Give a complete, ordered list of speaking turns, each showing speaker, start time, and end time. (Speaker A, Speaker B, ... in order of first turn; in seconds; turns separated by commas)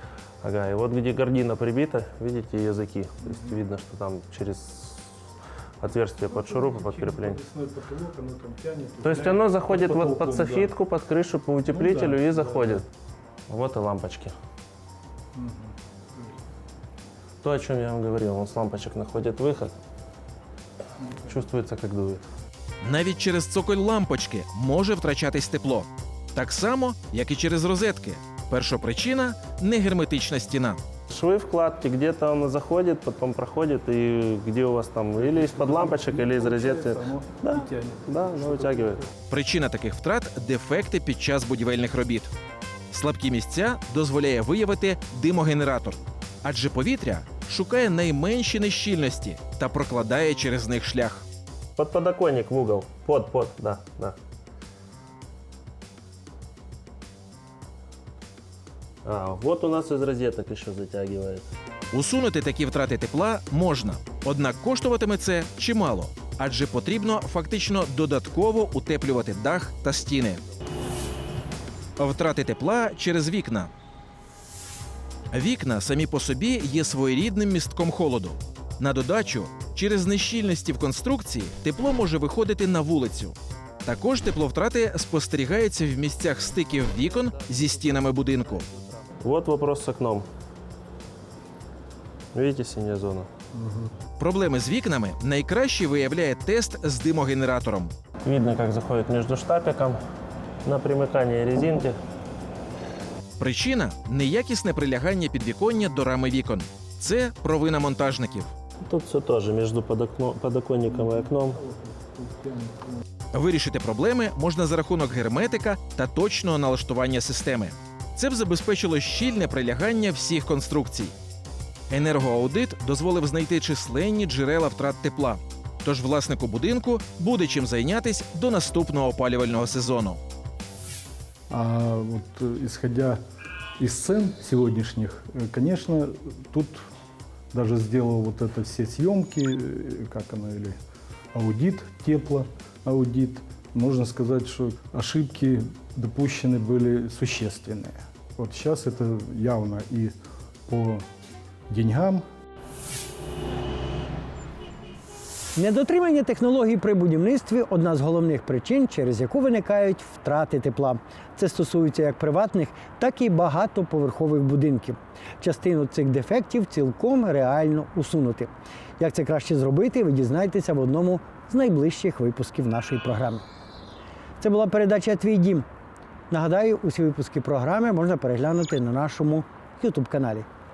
Speaker A: 0.4-5.1, Speaker A: 5.8-7.4, Speaker B: 6.3-10.8, Speaker A: 9.0-12.9, Speaker B: 11.7-12.8, Speaker A: 13.5-14.3, Speaker B: 15.4-15.7, Speaker A: 17.4-19.8, Speaker A: 21.2-22.2, Speaker C: 22.8-30.8, Speaker A: 31.1-39.0, Speaker B: 35.2-39.0, Speaker C: 39.3-42.3, Speaker C: 42.9-51.2, Speaker A: 51.8-54.2, Speaker A: 59.0-61.5, Speaker C: 61.9-70.4, Speaker C: 72.0-73.7, Speaker C: 75.3-88.7, Speaker A: 86.7-90.3, Speaker A: 92.3-93.3, Speaker C: 94.2-97.9, Speaker A: 98.2-100.0, Speaker A: 100.7-102.0, Speaker C: 103.4-108.5, Speaker A: 108.9-111.6, Speaker B: 111.1-112.9, Speaker C: 113.3-121.1, Speaker C: 121.9-130.2, Speaker B: 131.5-133.2, Speaker B: 133.8-136.9, Speaker B: 137.5-140.8, Speaker B: 141.3-150.2, Speaker B: 150.7-151.0, Speaker B: 151.7-152.2, Speaker D: 155.6-173.4, Speaker D: 174.4-175.7, Speaker D: 176.3-180.5